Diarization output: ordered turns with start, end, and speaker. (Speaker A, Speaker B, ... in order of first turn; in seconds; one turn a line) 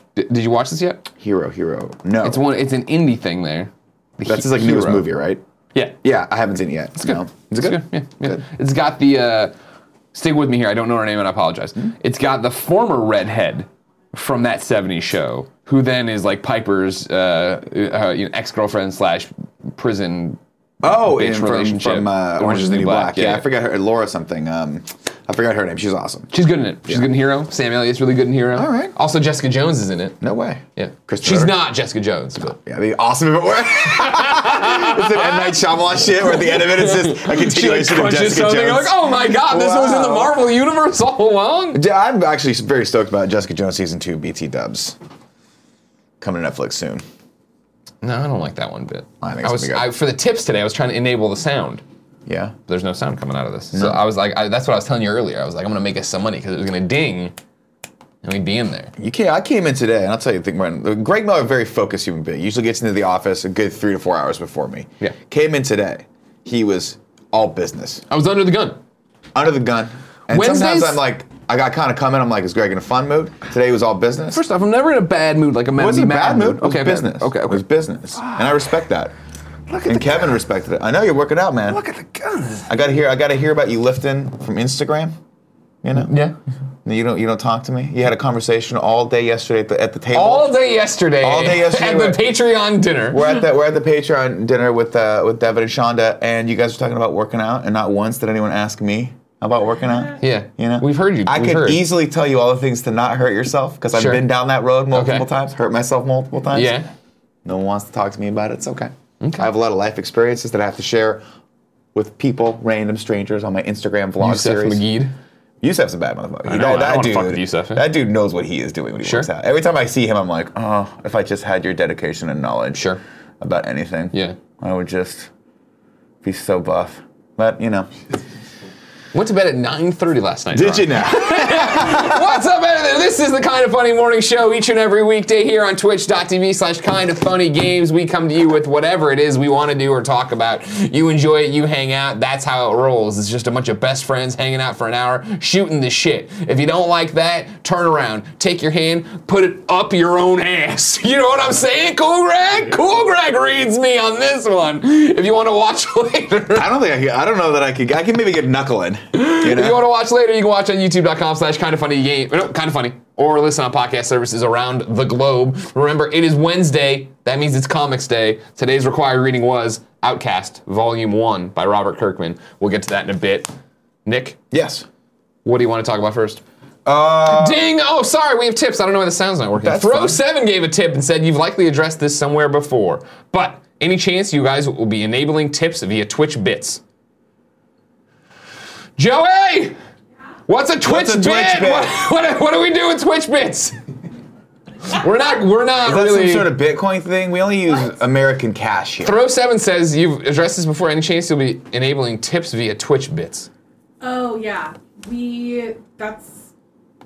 Speaker A: 0.2-1.1
Speaker B: 1.2-2.5
Speaker A: 2.2-5.1
Speaker B: 4.3-5.4
Speaker B: 6.0-8.4
Speaker A: 7.0-9.5
Speaker A: 10.1-23.5
Speaker B: 20.8-26.3
Speaker A: 26.3-30.2
Speaker B: 28.5-28.9
Speaker B: 30.2-31.6
Speaker A: 30.8-32.6
Speaker B: 32.6-40.4
Speaker A: 33.9-35.6
Speaker A: 36.2-41.8
Speaker B: 41.7-45.0
Speaker B: 46.2-47.0
Speaker A: 48.0-51.8
Speaker B: 49.2-49.9
Speaker B: 52.3-52.5
Speaker A: 52.7-57.4
Speaker B: 53.7-54.0
Speaker A: 58.2-58.9
Speaker B: 59.0-68.0
Speaker A: 68.1-68.8
Speaker B: 69.3-74.4
Speaker A: 70.3-71.0
Speaker A: 74.3-77.6
Speaker B: 75.8-79.1
Speaker A: 78.2-78.5
Speaker A: 79.7-80.4
Speaker B: 79.9-81.8
Speaker A: 81.7-82.7
Speaker B: 82.7-85.2
Speaker B: 85.8-86.1
Speaker A: 86.0-86.4
Speaker B: 86.8-90.6
Speaker A: 90.1-93.3
Speaker B: 91.2-92.2
Speaker B: 93.1-106.8
Speaker A: 100.2-101.8
Speaker A: 103.9-104.3
Speaker A: 104.9-105.3
Speaker A: 106.5-106.9
Speaker B: 107.5-111.2
Speaker A: 109.2-109.5
Speaker B: 112.0-114.9
Speaker A: 114.2-115.1
Speaker B: 115.6-122.9
Speaker A: 116.5-117.9
Speaker A: 119.0-119.3
Speaker A: 122.8-123.0
Speaker B: 123.4-125.3
Speaker B: 126.2-127.9
Speaker A: 129.1-156.7
Speaker B: 130.5-132.4
Speaker B: 156.6-159.8
Speaker A: 159.1-173.5
Speaker A: 174.1-174.4
Speaker B: 174.5-174.9
Speaker A: 175.4-176.4
Speaker B: 176.8-177.7
Speaker A: 177.3-186.8
Speaker B: 179.6-180.2
Speaker A: 189.0-189.8
Speaker A: 190.5-193.8
Speaker B: 190.8-192.0
Speaker A: 194.9-196.5
Speaker B: 195.8-199.2
Speaker A: 199.0-203.5
Speaker C: 204.0-206.5